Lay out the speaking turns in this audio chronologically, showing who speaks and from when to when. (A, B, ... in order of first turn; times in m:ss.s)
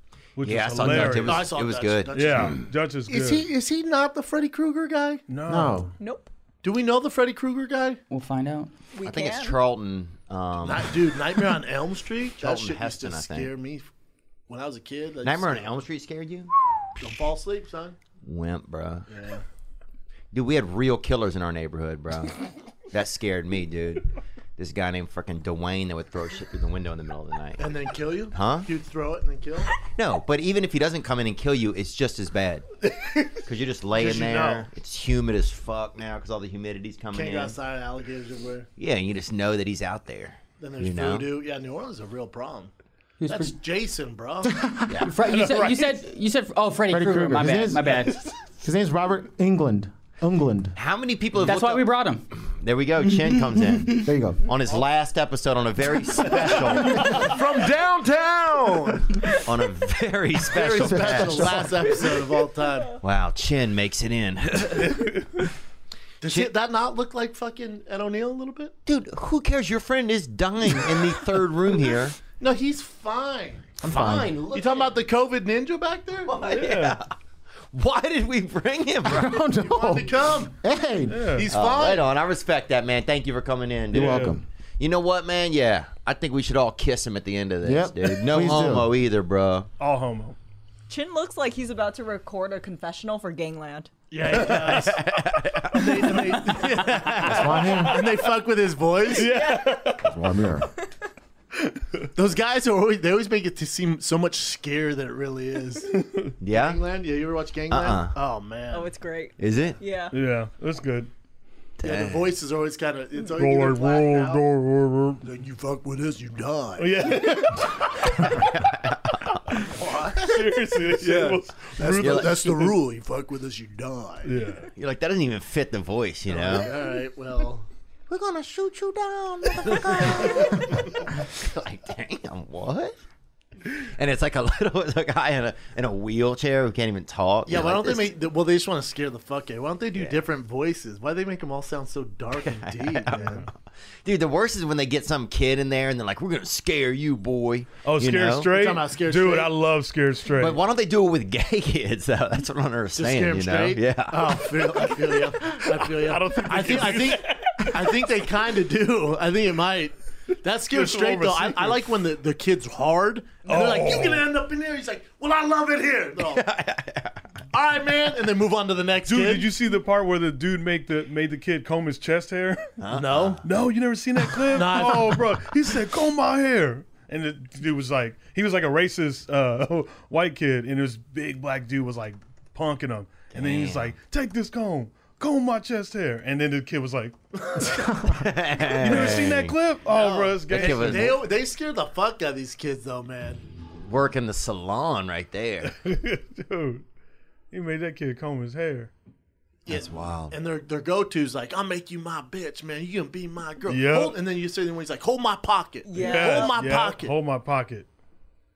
0:00.4-0:01.6 A
0:00.4-0:02.6 B
0:00.8-0:05.2 C
0:02.1-0:03.5 A
0:05.3-0:05.9 A
0:05.4-0:05.9 D
0:06.0-0:06.3 E
0:06.6-0:08.0 C
0:08.1-0:08.7 F
0:08.9-0:09.6 E
0:09.0-0:10.9 B
0:10.6-0:13.9 C
0:12.4-0:13.5 B
0:14.5-0:15.7 C
0:15.2-0:16.5 B
0:17.0-0:18.0 C
0:18.2-0:19.1 B
0:19.1-0:19.4 C
0:20.3-0:27.7 B
0:27.6-0:29.7 C
0:28.3-0:28.7 B
0:30.0-0:32.6 B
0:32.9-0:33.3 C
0:33.4-0:37.6 B
0:33.9-0:34.7 C
0:37.1-0:38.7 C
0:38.8-0:41.3 B
0:40.6-0:42.7 C
0:43.2-0:43.5 F
0:43.3-0:44.6 C
0:44.4-0:45.0 D
0:44.9-0:45.1 B
0:45.0-0:48.2 F
0:45.3-0:45.7 C
0:46.9-0:48.1 D
0:48.6-0:50.7 D
0:50.7-0:51.8 B
0:51.4-0:52.2 F
0:52.4-0:57.2 B
0:54.0-0:54.4 D
0:57.1-0:59.3 C
0:59.4-1:02.0 B
1:00.5-1:03.0 C
1:00.7-1:02.0 D
1:03.0-1:05.2 B
1:04.8-1:05.2 A
1:06.2-1:08.7 C
1:06.2-1:06.5 B
1:08.8-1:12.2 B
1:12.4-1:13.7 C
1:13.8-1:14.4 D
1:13.8-1:14.9 B
1:14.5-1:16.3 C
1:16.2-1:17.1 B
1:16.5-1:17.0 A
1:17.7-1:19.4 B
1:19.0-1:21.4 D
1:19.4-1:20.5 C
1:21.1-1:21.5 A
1:21.3-1:22.0 C
1:21.5-1:29.7 B
1:23.9-1:24.4 D
1:23.9-1:24.4 A
1:27.6-1:28.9 D
1:29.8-1:30.4 A
1:30.9-1:33.9 E
1:34.1-1:35.1 C
1:34.7-1:35.9 B
1:35.7-1:39.4 C
1:37.2-1:38.0 D
1:39.1-1:40.1 A
1:39.3-1:39.9 E
1:40.0-1:40.7 D
1:42.1-1:45.9 C
1:45.9-1:46.3 A
1:46.4-1:46.8 B
1:46.5-1:48.9 C
1:47.7-1:48.1 B
1:48.7-1:50.1 E
1:49.4-1:49.8 B
1:50.1-1:51.1 A
1:51.8-1:52.3 B
1:51.8-1:54.4 C
1:53.2-1:55.2 A
1:55.2-1:57.5 C
1:56.8-1:57.7 A
1:58.3-1:59.3 B
1:59.6-2:04.3 C
2:00.2-2:02.7 A
2:01.9-2:02.5 B
2:04.2-2:04.7 A
2:04.8-2:06.7 B
2:06.3-2:07.7 C
2:08.1-2:13.0 B
2:13.6-2:18.1 B
2:17.5-2:23.4 C
2:22.4-2:23.5 B
2:23.2-2:23.5 A
2:24.0-2:28.5 B
2:27.8-2:30.6 A
2:28.4-2:29.6 C
2:30.4-2:35.3 B
2:33.0-2:46.4 C
2:35.9-2:38.0 A
2:40.7-2:41.8 A
2:43.4-2:44.3 A
2:46.2-2:47.2 B
2:47.5-2:49.5 C
2:49.0-2:52.7 A
2:52.8-2:53.4 B
2:52.9-2:53.4 C
2:53.4-3:07.2 A
2:54.5-2:55.3 C
3:03.3-3:03.9 B
3:08.1-3:09.6 B
3:08.8-3:11.2 A
3:09.9-3:13.4 C
3:10.5-3:11.2 B
3:13.8-3:15.7 B
3:15.7-3:16.8 A
3:17.5-3:18.9 A
3:19.7-3:27.1 C
3:19.7-3:20.3 B
3:23.7-3:24.2 A
3:25.8-3:26.6 E
3:26.0-3:27.9 A